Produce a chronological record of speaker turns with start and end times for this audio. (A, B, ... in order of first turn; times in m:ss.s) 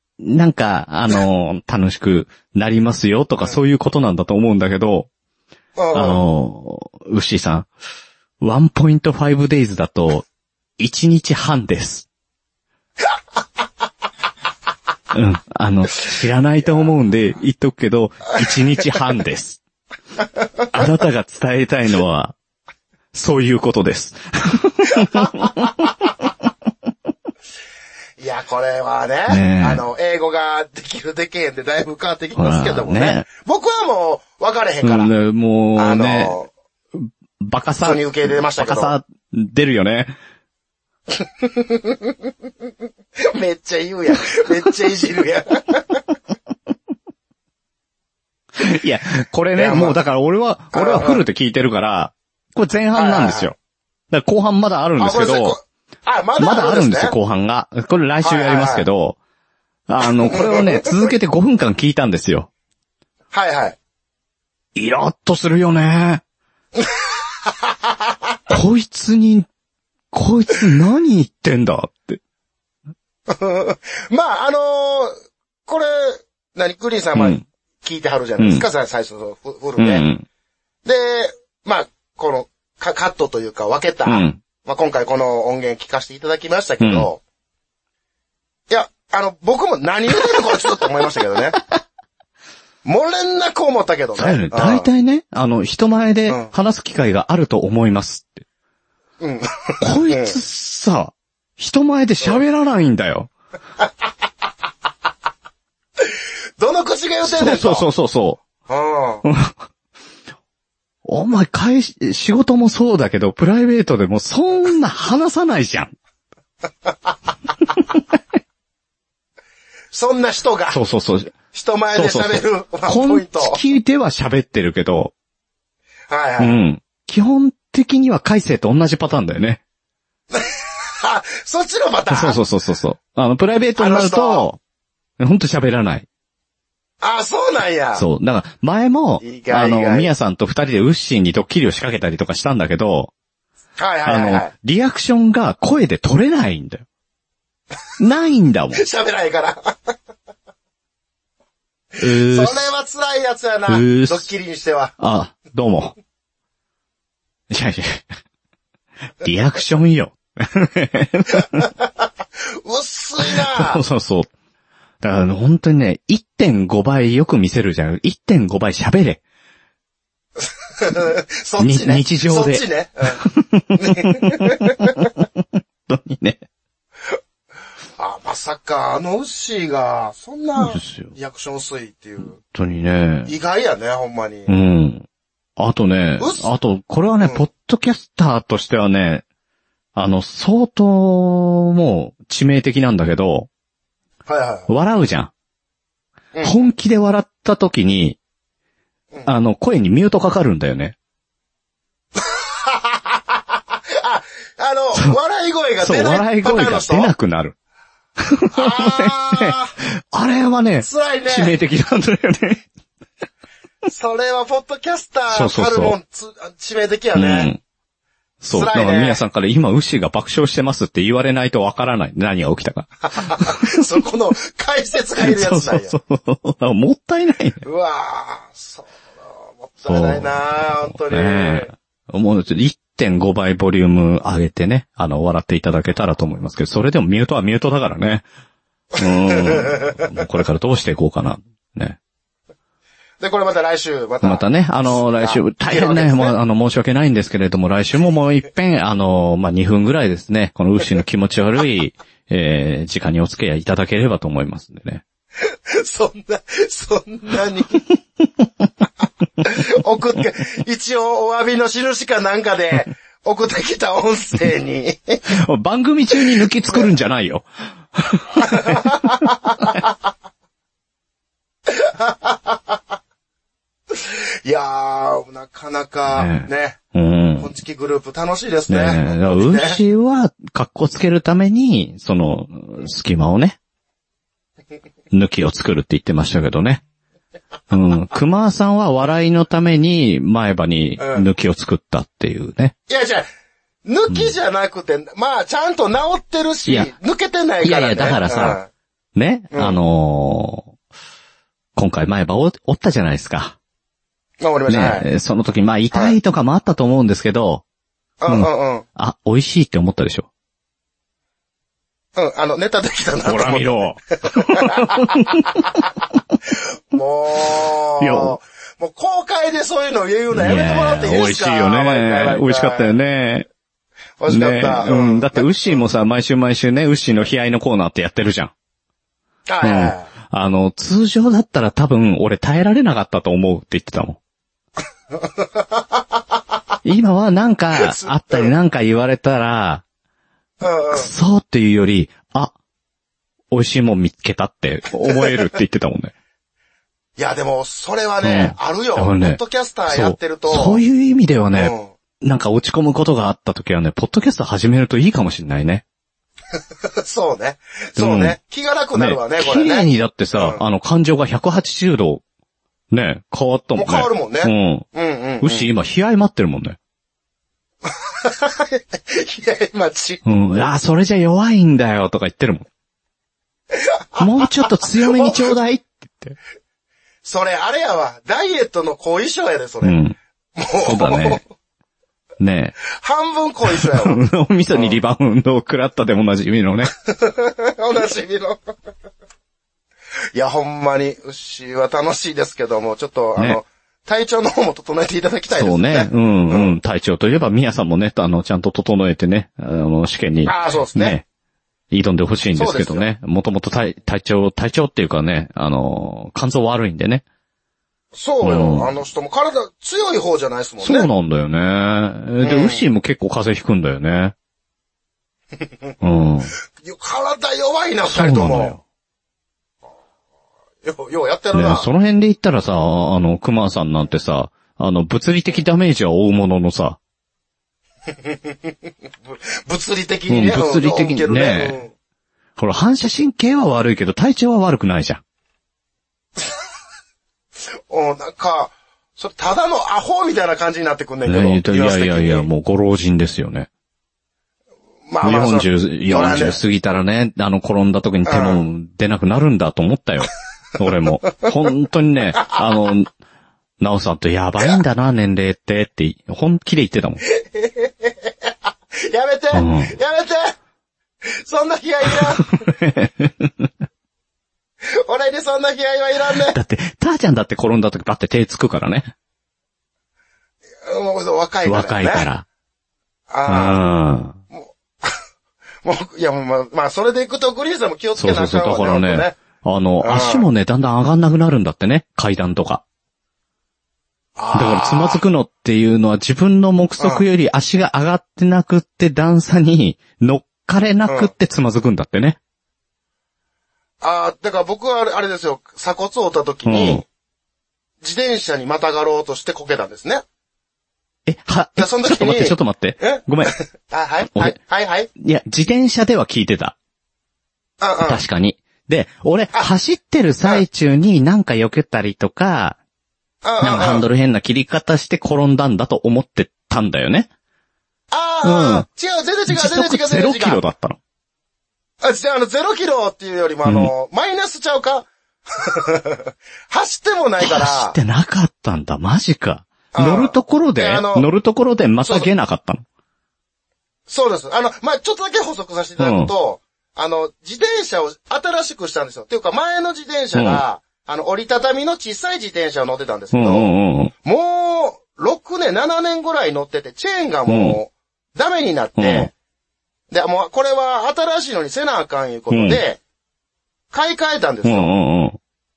0:00.2-0:05.1 A
0:05.8-0:06.2 B
0:05.9-0:07.7 A
0:08.4-0:10.2 A
0:10.8-0:12.1 A
0:15.1-0:19.6 A
0:20.7-0:22.3 A
0:23.1-0:25.8 A
0:28.2-0:35.1 B
0:29.3-0:29.8 A
0:32.3-0:33.3 A
0:34.8-0:36.4 A
0:35.8-0:36.5 B
0:36.9-0:40.1 A
0:37.8-0:38.9 B
0:41.2-0:41.9 B
0:43.3-0:46.0 B
0:48.6-0:53.6 A
0:49.6-0:50.0 B
0:50.7-0:51.2 B
0:52.9-0:53.5 B
0:54.1-0:55.6 A
0:55.0-0:57.1 B
0:56.4-0:59.2 A
0:58.2-0:58.9 B
0:59.9-1:02.5 A
1:00.2-1:01.0 B
1:03.3-1:03.8 B
1:04.7-1:06.2 A
1:08.5-1:09.5 A
1:10.1-1:12.2 A
1:13.3-1:15.1 B
1:15.7-1:20.1 B
1:17.1-1:17.4 A
1:18.4-1:18.6 A
1:19.8-1:20.2 A
1:20.8-1:27.2 B
1:24.0-1:24.4 A
1:26.8-1:27.1 A
1:28.7-1:31.6 B
1:30.3-1:30.6 A
1:32.8-1:34.9 B
1:34.2-1:38.4 A
1:39.2-1:40.4 B
1:39.8-1:43.3 A
1:46.0-1:47.9 B
1:47.2-1:48.4 A
1:48.7-1:49.2 B
1:49.2-1:49.6 A
1:51.0-1:55.9 A
1:59.9-2:00.8 B
2:00.7-2:01.4 A
2:01.5-2:03.6 B
2:01.9-2:05.1 A
2:06.1-2:06.6 B
2:06.4-2:09.6 A
2:11.0-2:12.4 B
2:12.1-2:14.6 A
2:13.8-2:14.5 B
2:15.2-2:16.1 A
2:17.0-2:18.0 B
2:18.0-2:23.1 A
2:19.2-2:20.1 B
2:23.8-2:24.5 B
2:24.0-2:26.8 A
2:28.0-2:28.8 A
2:28.7-2:29.7 B
2:32.0-2:32.7 A
2:32.0-2:34.9 B
2:33.7-2:34.3 A
2:35.0-2:35.9 A
2:37.5-2:38.0 A
2:39.2-2:41.7 A
2:42.6-2:43.8 B
2:43.2-2:44.3 A
2:45.0-2:49.2 A
2:50.8-2:53.2 B
2:51.6-2:52.6 A
2:53.2-2:56.4 A
2:53.7-2:55.0 B
2:58.0-3:02.4 B
3:00.6-3:01.1 A
3:02.2-3:03.3 A
3:03.2-3:04.5 B
3:04.5-3:05.0 A
3:05.6-3:09.2 A
3:06.2-3:06.4 B
3:10.0-3:13.5 A
3:14.3-3:14.7 B
3:14.7-3:15.3 A
3:16.3-3:16.6 B
3:16.4-3:18.2 A
3:19.2-3:21.0 A
3:22.2-3:23.2 B
3:24.0-3:27.1 B
3:25.8-3:27.6 A
3:28.2-3:29.6 A
3:28.5-3:29.7 B
3:30.1-3:32.6 A
3:30.8-3:31.5 B
3:33.9-3:37.5 B
3:35.3-3:36.0 A
3:37.1-3:37.6 A
3:38.4-3:43.8 A
3:38.5-3:39.2 B
3:43.1-3:45.9 B
3:45.2-3:47.6 A
3:47.6-3:48.9 B
3:49.6-3:51.7 B
3:49.9-3:58.2 A
3:59.0-4:02.0 A
3:59.3-3:59.8 B
4:03.2-4:06.3 B
4:04.2-4:15.0 A
4:15.7-4:17.9 B
4:19.4-4:25.2 B
4:25.3-4:28.9 A
4:28.4-4:29.7 B
4:31.7-4:32.6 B
4:33.9-4:36.8 B
4:36.1-4:37.5 A
4:37.4-4:39.8 B
4:38.7-4:43.6 A
4:45.1-4:46.8 A
4:47.7-4:52.7 A
4:51.0-4:51.3 B
4:52.9-4:53.2 B
4:53.9-4:58.7 B
4:56.6-4:56.9 A
4:57.6-4:58.6 A
4:59.1-5:00.7 A
4:59.5-4:59.8 B
5:01.7-5:03.6 A
5:04.4-5:05.1 B
5:04.7-5:07.6 A
5:05.9-5:06.2 B
5:08.2-5:08.8 B
5:08.3-5:10.3 A
5:12.2-5:15.4 B
5:13.2-5:15.4 A
5:16.9-5:22.9 B
5:18.0-5:18.4 A
5:20.3-5:23.5 A
5:24.2-5:25.8 B
5:24.3-5:28.5 A
5:29.5-5:30.1 B
5:29.6-5:34.2 A
5:36.8-5:39.8 A
5:37.8-5:38.5 B
5:40.6-5:41.1 B
5:40.9-5:42.5 A
5:43.5-5:46.1 A
5:47.2-5:50.8 B
5:48.2-5:55.8 A
5:51.6-5:51.9 B
5:57.0-6:00.6 B
5:58.0-5:58.4 A
5:58.9-6:02.2 A
6:02.9-6:04.9 A
6:03.8-6:05.7 B
6:05.4-6:06.8 A
6:08.2-6:10.2 B
6:10.2-6:12.7 A
6:13.7-6:15.5 B
6:14.2-6:16.4 A
6:17.2-6:20.0 B
6:19.8-6:20.2 A
6:20.6-6:21.4 B
6:20.8-6:21.4 A
6:22.4-6:22.8 A
6:23.0-6:24.2 B
6:23.7-6:26.9 A
6:27.2-6:28.6 B
6:30.3-6:36.7 B
6:35.5-6:41.2 A
6:40.4-6:41.2 B
6:41.9-6:47.2 A
6:42.6-6:43.1 B
6:48.1-6:51.1 B
6:48.4-6:48.9 A
6:50.8-6:54.3 A
6:52.4-6:52.9 B
6:56.0-6:56.5 A
6:56.8-6:58.8 B
6:58.1-6:58.8 A
7:00.8-7:01.9 B
7:01.5-7:07.0 A
7:08.2-7:08.7 B
7:09.2-7:11.9 B
7:10.3-7:11.8 A
7:12.6-7:15.2 A
7:17.9-7:22.5 B
7:21.2-7:23.7 A
7:25.1-7:26.6 B
7:25.2-7:33.1 A
7:28.3-7:28.6 B
7:33.8-7:37.2 A
7:37.3-7:38.5 B
7:39.0-7:40.6 B
7:39.5-7:39.9 A
7:41.3-7:42.6 B
7:42.1-7:43.7 A
7:45.0-7:46.6 B
7:46.3-7:49.1 A
7:50.9-7:52.3 B
7:51.6-7:52.4 A
7:53.3-7:53.8 B
7:53.4-7:54.4 A
7:54.5-7:55.1 B
7:55.8-7:59.4 B
7:58.2-8:02.8 A
8:00.0-8:00.5 B
8:04.4-8:05.2 B
8:04.5-8:12.4 A
8:07.0-8:07.2 B
8:11.0-8:11.3 B
8:14.0-8:17.0 B
8:16.6-8:17.0 A
8:18.0-8:20.2 B
8:21.2-8:23.6 A
8:21.8-8:25.1 B
8:24.3-8:24.6 A
8:25.2-8:26.8 A
8:27.8-8:28.2 B
8:28.0-8:32.8 A
8:33.4-8:34.0 B
8:33.6-8:37.3 A
8:38.1-8:40.6 B
8:38.4-8:38.9 A
8:39.5-8:41.0 A
8:42.0-8:45.1 B
8:43.6-8:43.9 A
8:45.6-8:48.0 B
8:47.4-8:52.8 A
8:49.9-8:51.3 B
8:52.0-8:52.3 B
8:54.1-9:03.7 B
8:56.0-8:56.3 A
9:00.3-9:00.6 A
9:03.3-9:04.1 A
9:04.2-9:09.3 B
9:07.5-9:07.8 A
9:09.0-9:09.3 A
9:10.1-9:13.0 B
9:12.5-9:12.8 A
9:13.9-9:14.9 B
9:14.6-9:15.4 A